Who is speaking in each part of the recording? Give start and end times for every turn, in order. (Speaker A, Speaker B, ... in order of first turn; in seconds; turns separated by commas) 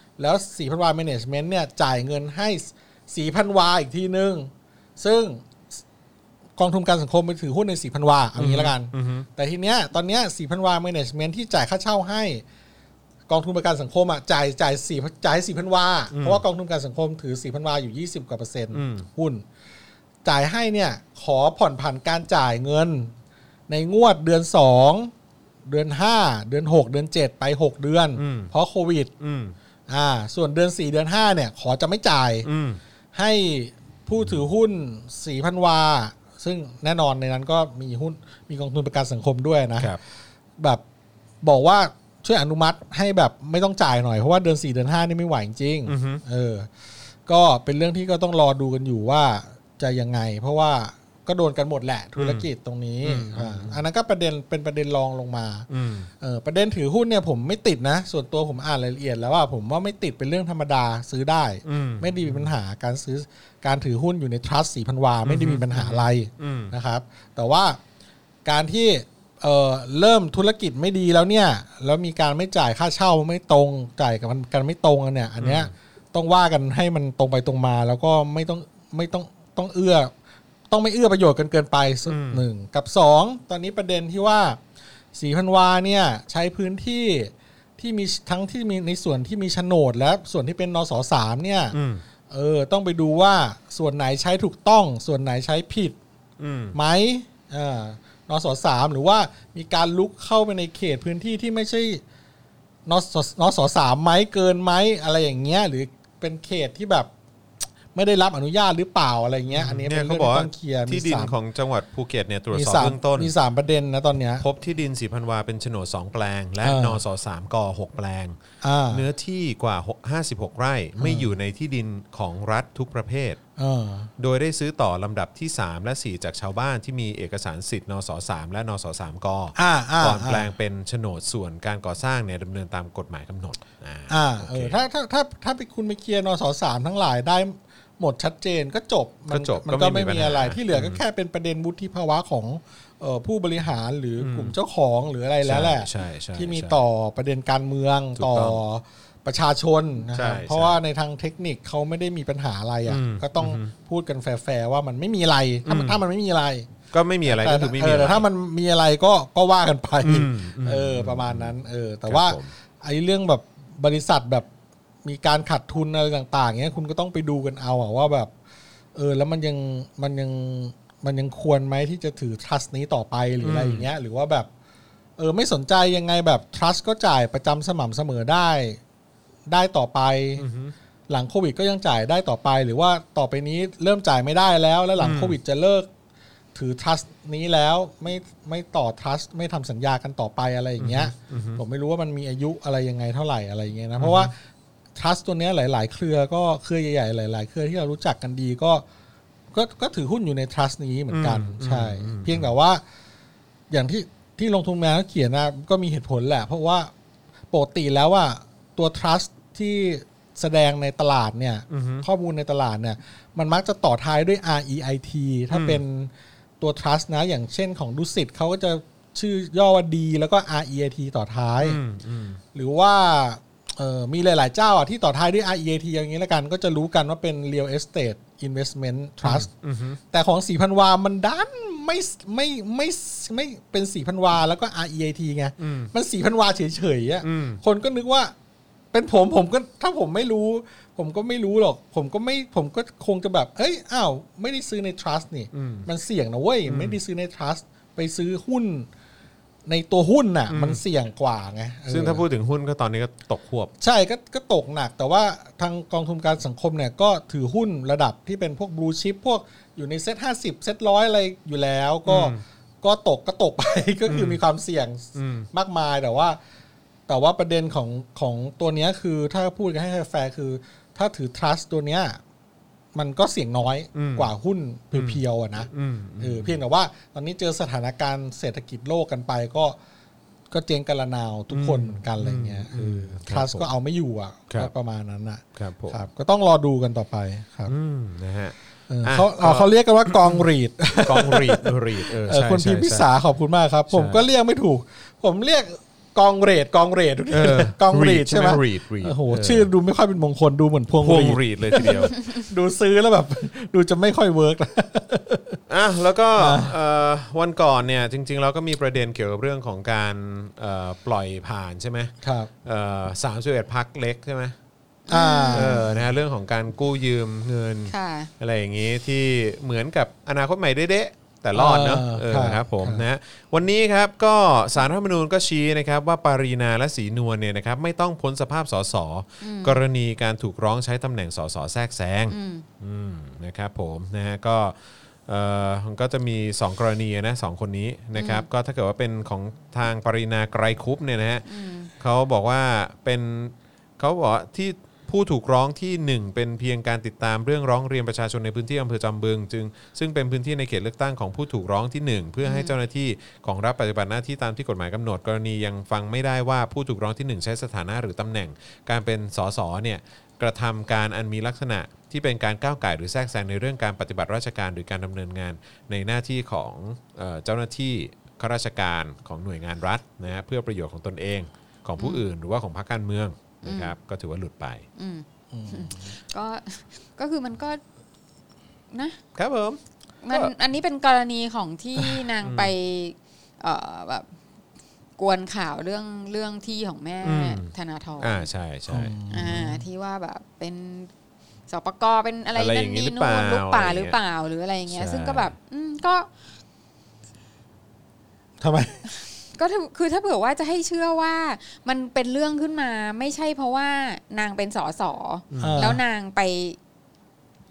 Speaker A: 0.2-5.8, Speaker A: 6.6-12.4, Speaker B: 8.3-9.2, Speaker A: 13.3-19.4, Speaker B: 16.1-16.4, Speaker B: 18.7-19.1, Speaker A: 20.2-23.1, Speaker A: 23.7-25.1, Speaker A: 25.6-29.1, Speaker B: 28.1-28.5, Speaker B: 29.2-29.5, Speaker A: 29.9-32.5, Speaker B: 32.4-32.8, Speaker A: 33.1-40.0, Speaker B: 34.2-34.4, Speaker A: 41.4-46.7, Speaker B: 45.9-46.2, Speaker A: 47.2-55.7, Speaker B: 52.2-52.5, Speaker B: 53.0-53.8, Speaker B: 55.7-56.1, Speaker A: 56.2-67.8, Speaker B: 61.6-62.5, Speaker B: 65.2-66.7, Speaker A: 68.4-80.1, Speaker B: 75.4-75.7, Speaker A: 80.7-84.6, Speaker B: 82.0-82.4, Speaker A: 85.1-91.8, Speaker B: 91.7-92.0, Speaker A: 92.3-96.0, Speaker B: 96.4-96.8, Speaker A: 96.7-102.0, Speaker A: 102.8-107.1, Speaker A: 107.9-111.3, Speaker B: 109.5-113.3, Speaker A: 112.5-114.4, Speaker B: 114.4-118.4, Speaker A: 116.6-117.0, Speaker A: 118.6-119.0, Speaker B: 118.9-123.4, Speaker A: 121.0-121.3, Speaker A: 123.6-124.1, Speaker B: 124.2-134.8, Speaker A: 129.6-130.5, Speaker A: 134.1-156.7, Speaker B: 139.3-141.0, Speaker B: 144.2-144.6, Speaker B: 145.4-146.8, Speaker B: 148.2-148.6, Speaker B: 150.1-150.8, Speaker B: 152.9-153.7, Speaker B: 155.7-156.0, Speaker B: 156.9-158.3, Speaker A: 157.2-164.5, Speaker B: 160.0-162.5, Speaker A: 165.0-168.3, Speaker A: 168.9-174.5, Speaker B: 173.4-173.9, Speaker A: 175.2-178.8, Speaker A: 179.5-180.4, Speaker B: 180.4-180.7, Speaker A: 181.1-185.9, Speaker B: 185.0-185.4, Speaker A: 186.5-194.4, Speaker B: 190.8-191.6, Speaker B: 194.0-194.3, Speaker A: 194.9-198.8, Speaker A: 199.5-202.8, Speaker B: 201.1-202.5, Speaker A: 203.7-206.9, Speaker A: 207.5-221.8, Speaker B: 211.7-212.1, Speaker B: 215.5-215.8, Speaker B: 221.6-222.4, Speaker A: 222.5-229.5, Speaker B: 229.2-230.0, Speaker A: 230.1-238.3, Speaker B: 235.6-235.9, Speaker B: 237.2-237.6, Speaker A: 238.9-248.9, Speaker B: 245.5-245.9, Speaker B: 246.7-247.0, Speaker A: 249.7-252.2, Speaker B: 250.5-250.8, Speaker B: 251.9-253.7, Speaker A: 253.8-266.4, Speaker B: 262.1-262.4, Speaker B: 264.1-264.4, Speaker B: 265.1-265.5, Speaker A: 267.1-272.2, Speaker A: 272.9-275.7, Speaker B: 273.9-274.3, Speaker B: 274.9-276.6, Speaker A: 276.2-279.8, Speaker A: 280.5-287.7, Speaker B: 281.5-283.7, Speaker B: 285.6-286.0, Speaker B: 287.7-290.4, Speaker A: 288.9-305.6, Speaker B: 291.0-293.1, Speaker B: 293.9-294.2, Speaker B: 297.3-299.7, Speaker B: 301.0-302.1, Speaker B: 305.7-314.6, Speaker A: 306.4-306.7, Speaker A: 312.2-312.5, Speaker C: 315.1-315.9, Speaker A: 315.1-316.0, Speaker B: 315.5-374.8, Speaker C: 317.9-318.3, Speaker A: 321.5-323.0, Speaker C: 329.4-329.8, Speaker C: 332.3-332.6, Speaker C: 338.1-338.4, Speaker C: 341.5-341.9, Speaker C: 352.4-352.8, Speaker C: 372.0-372.2, Speaker C: 373.6-373.9, Speaker C: 375.0-377.8, Speaker A: 375.5-376.1, Speaker C: 378.9-379.2, Speaker B: 379.3-379.8, Speaker C: 380.2-384.2, Speaker B: 382.4-382.7, Speaker C: 385.2-388.5, Speaker B: 387.2-389.1, Speaker A: 388.9-389.8, Speaker C: 389.3-391.1, Speaker C: 391.7-396.3, Speaker B: 392.5-394.2, Speaker B: 394.9-395.5, Speaker A: 398.6-399.0, Speaker C: 399.6-406.8, Speaker B: 405.5-405.9, Speaker A: 405.6-406.0